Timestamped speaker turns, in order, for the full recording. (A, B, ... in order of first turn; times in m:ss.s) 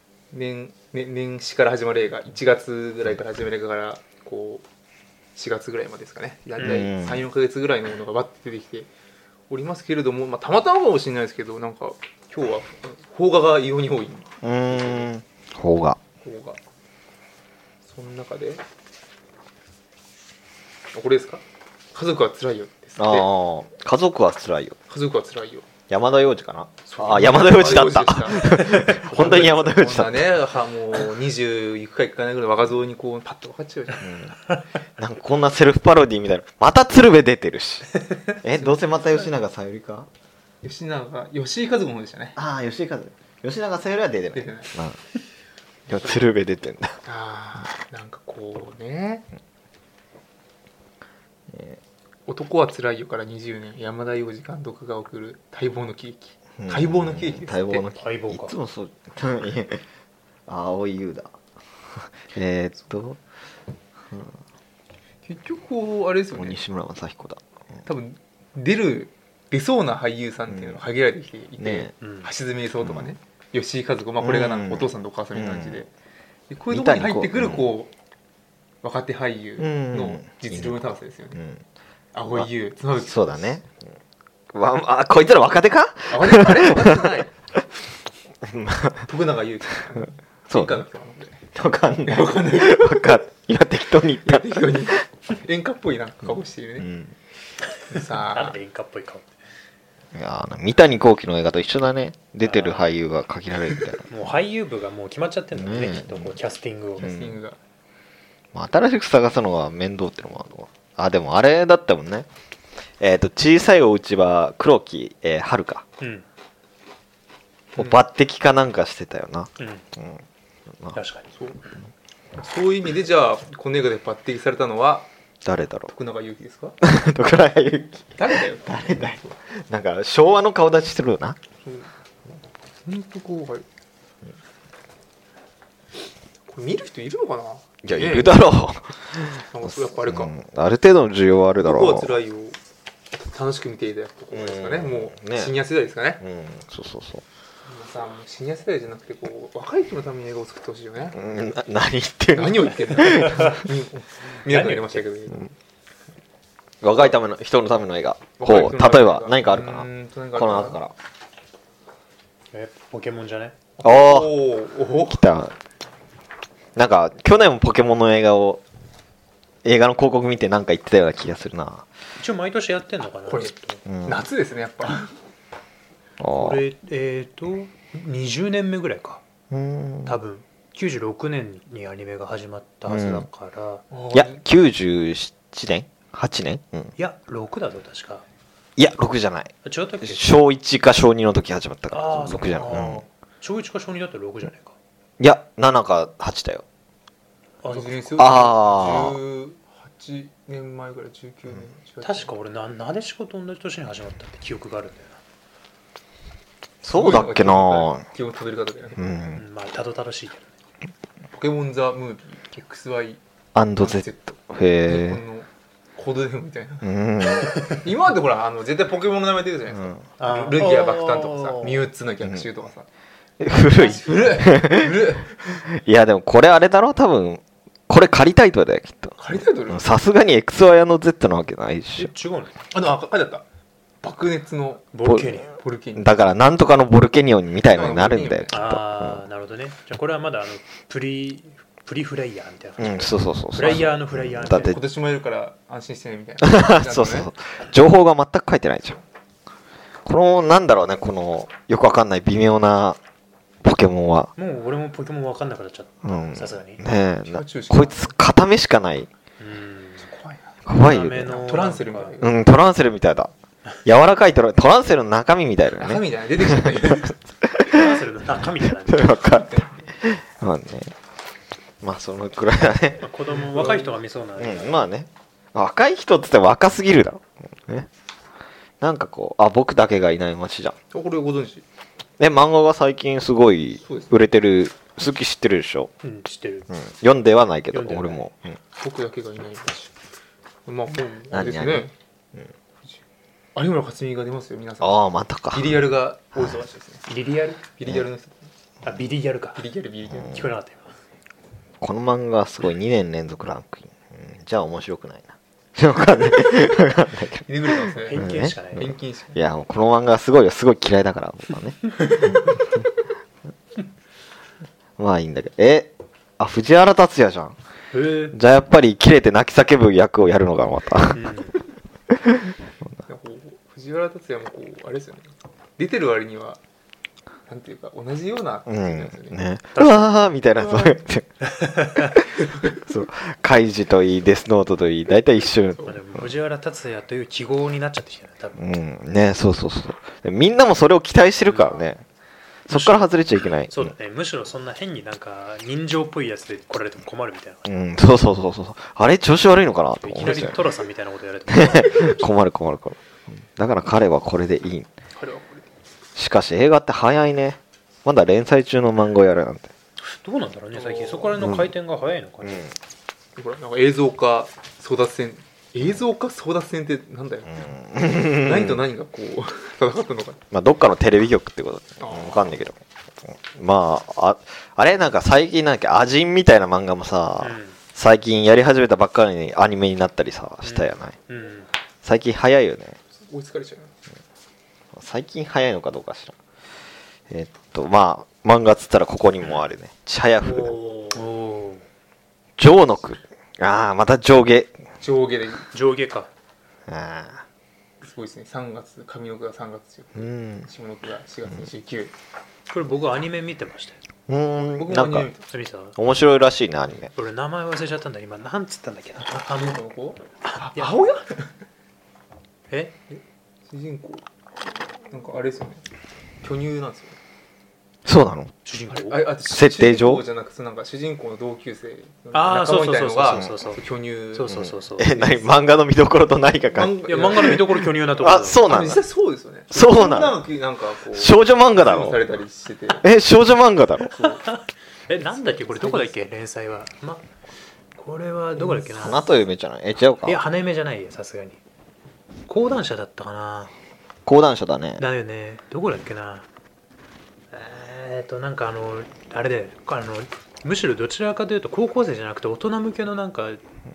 0:00.3-0:04.6 A
0:05.4-0:08.9 A
0:06.6-0:06.8 B
0:06.6-0:07.2 C
0:09.5-0:15.1 A
0:14.4-0:16.0 C
0:16.2-0:16.6 A
0:17.8-0:18.6 A
0:20.9-0:21.4 A
0:21.9-0:23.3 A
0:23.0-0:24.8 C
0:24.9-0:25.7 A
0:25.9-0:30.3 C
0:26.9-0:34.1 A
0:28.4-0:29.4 B
0:34.0-0:34.4 C
0:35.0-0:40.1 C
0:40.6-0:42.4 A
0:42.4-0:45.0 C
0:44.3-0:44.7 A
0:45.9-0:47.0 C
0:47.0-0:49.3 A
0:51.5-0:51.8 C
0:52.3-0:57.9 A
0:56.6-0:59.8 C
0:58.0-0:58.6 B
1:00.5-1:01.3 C
1:02.0-1:03.2 C
1:04.1-1:04.4 C
1:05.3-1:06.6 A
1:06.3-1:07.4 C
1:07.9-1:15.9 A
1:10.5-1:10.8 C
1:11.6-1:11.9 C
1:12.0-1:12.3 B
1:12.8-1:13.1 C
1:14.2-1:15.8 C
1:16.5-1:17.9 A
1:16.7-1:17.7 C
1:18.8-1:21.4 A
1:19.6-1:20.8 C
1:21.4-1:21.6 C
1:22.1-1:23.6 A
1:23.0-1:23.8 C
1:24.5-1:27.1 C
1:26.1-1:27.3 A
1:28.4-1:29.1 C
1:29.1-1:31.4 A
1:30.5-1:30.8 C
1:31.5-1:34.8 C
1:32.0-1:33.2 A
1:34.2-1:36.9 A
1:36.8-1:37.2 C
1:37.9-1:38.6 A
1:37.9-1:39.3 B
1:40.1-1:44.0 C
1:42.4-1:42.9 B
1:44.1-1:47.1 B
1:45.6-1:46.4 C
1:47.0-1:47.6 A
1:47.0-1:47.4 C
1:48.5-1:52.3 C
1:53.0-1:55.8 C
1:56.0-1:56.2 B
1:57.8-2:00.2 C
1:59.6-1:59.8 B
2:01.0-2:01.3 B
2:01.3-2:01.6 A
2:02.4-2:05.1 A
2:05.4-2:05.9 C
2:05.9-2:06.8 A
2:06.8-2:11.4 C
2:08.2-2:09.0 A
2:11.6-2:11.9 A
2:12.8-2:13.6 A
2:16.5-2:18.4 A
2:17.8-2:22.1 C
2:19.4-2:20.3 A
2:21.6-2:22.6 A
2:23.1-2:26.2 A
2:24.3-2:25.5 C
2:26.2-2:27.2 C
2:27.7-2:31.2 A
2:31.1-2:33.6 C
2:32.4-2:35.5 A
2:34.5-2:35.0 B
2:36.8-2:40.9 C
2:38.4-2:40.8 A
2:42.5-2:43.6 B
2:43.8-2:45.2 A
2:43.8-2:44.3 C
2:45.1-2:45.6 C
2:46.8-2:48.6 C
2:49.6-2:51.9 C
2:52.2-2:53.8 B
2:53.3-2:53.5 A
2:53.9-2:54.2 C
2:54.0-2:55.1 A
2:56.2-2:56.6 C
2:56.3-2:59.2 B
2:59.5-3:00.2 C
3:00.1-3:03.8 B
3:02.9-3:03.3 C
3:03.9-3:04.4 A
3:04.1-3:06.9 C
3:07.0-3:08.2 B
3:08.8-3:13.0 C
3:09.6-3:10.3 B
3:11.9-3:14.8 B
3:15.2-3:16.6 C
3:17.6-3:18.1 B
3:17.7-3:22.3 A
3:18.2-3:19.2 C
3:22.0-3:25.2 B
3:26.8-3:28.0 C
3:26.8-3:29.0 A
3:29.0-3:29.4 C
3:29.4-3:30.5 B
3:31.3-3:33.2 A
3:33.6-3:35.2 C
3:33.8-3:36.9 A
3:36.8-3:37.6 C
3:37.4-3:42.9 A
3:39.7-3:40.0 C
3:40.2-3:41.9 B
3:43.4-3:45.1 C
3:43.5-3:45.6 A
3:45.7-3:49.2 C
3:49.2-3:49.9 A
3:49.7-3:52.1 C
3:52.0-3:52.6 B
3:52.7-3:53.4 A
3:54.0-3:56.3 A
3:54.9-3:55.5 B
3:55.0-3:55.4 C
3:56.0-3:59.2 C
3:57.7-3:58.6 A
3:58.5-4:04.8 B
4:02.8-4:04.8 C
4:04.5-4:07.3 A
4:06.4-4:09.0 C
4:10.1-4:13.0 C
4:13.6-4:14.3 C
4:14.4-4:16.8 B
4:16.0-4:19.1 C
4:17.3-4:18.2 A
4:19.4-4:20.1 B
4:20.0-4:20.6 A
4:20.7-4:21.4 C
4:20.7-4:22.2 B
4:21.2-4:22.4 A
4:22.2-4:23.3 C
4:23.8-4:28.0 C
4:25.8-4:27.2 A
4:27.6-4:29.4 B
4:28.6-4:30.9 C
4:29.3-4:29.9 A
4:31.8-4:33.1 C
4:33.0-4:34.8 B
4:33.3-4:33.9 A
4:34.4-4:37.9 C
4:38.8-4:40.8 C
4:40.9-4:41.6 A
4:42.2-4:45.9 C
4:43.8-4:44.2 A
4:46.0-4:46.7 B
4:46.7-4:48.6 C
4:47.7-4:48.2 B
4:48.8-4:49.9 A
4:50.7-4:51.9 A
4:51.3-4:52.5 C
4:53.6-4:58.5 A
4:54.8-4:55.8 C
4:57.1-4:57.6 B
4:58.8-4:59.6 B
4:59.6-5:00.4 A
5:00.2-5:00.4 C
5:00.2-5:01.0 B
5:01.8-5:07.5 C
5:07.5-5:09.4 A
5:08.1-5:09.0 B
5:08.1-5:08.8 C
5:09.4-5:12.3 C
5:15.0-5:17.6 C
5:17.9-5:18.4 B
5:18.3-5:21.3 C
5:21.1-5:21.6 B
5:22.1-5:22.5 C
5:23.1-5:26.6 A
5:27.5-5:29.4 A
5:28.7-5:31.3 C
5:29.8-5:30.1 B
5:30.6-5:31.0 A
5:31.4-5:32.2 B
5:32.4-5:32.8 A
5:32.8-5:36.3 C
5:35.8-5:38.6 B
5:38.6-5:42.0 C
5:41.5-5:41.8 B
5:42.7-5:43.9 C
5:42.7-5:43.1 B
5:43.7-5:47.7 B
5:47.7-5:50.6 C
5:50.0-5:52.3 B
5:51.5-5:54.9 C
5:55.2-5:55.7 A
5:56.2-5:59.7 C
6:00.0-6:02.7 B
6:00.7-6:01.4 A
6:01.4-6:01.7 C
6:02.4-6:02.7 C
6:03.4-6:07.7 A
6:07.5-6:08.8 C
6:08.2-6:10.4 A
6:10.5-6:21.2 C
6:12.0-6:12.6 A
6:17.4-6:17.8 B
6:20.6-6:21.7 B
6:22.0-6:23.0 C
6:23.3-6:23.9 A
6:24.9-6:26.4 C
6:27.3-6:30.8 C
6:30.4-6:31.8 B
6:32.6-6:34.7 C
6:35.0-6:35.7 A
6:35.7-6:36.3 B
6:36.9-6:37.4 C
6:38.0-6:42.1 A
6:40.2-6:40.7 C
6:42.7-6:44.0 B
6:44.3-6:45.3 C
6:44.8-6:45.4 A
6:45.5-6:46.0 B
6:46.0-6:47.1 C
6:47.2-6:49.8 B
6:49.5-6:51.5 A
6:50.4-6:51.0 B
6:52.7-6:53.0 B
6:53.7-6:54.3 A
6:55.1-6:55.8 A
6:56.4-6:57.2 A
6:58.0-6:58.5 C
6:58.6-6:59.3 B
6:58.9-7:04.6 A
6:59.5-7:00.2 C
7:02.3-7:03.8 B
7:04.3-7:05.4 B
7:04.5-7:07.0 C
7:06.7-7:07.8 A
7:07.1-7:08.7 B
7:08.2-7:09.0 C
7:08.6-7:13.0 A
7:09.7-7:10.4 C
7:11.1-7:12.2 C
7:13.0-7:14.1 C
7:14.1-7:14.4 A
7:14.2-7:17.3 B
7:15.2-7:16.1 A
7:18.0-7:19.2 B
7:18.6-7:19.0 A
7:18.9-7:20.4 C
7:20.2-7:21.6 B
7:22.5-7:23.7 B
7:24.3-7:25.0 C
7:25.0-7:26.5 B
7:27.5-7:33.6 B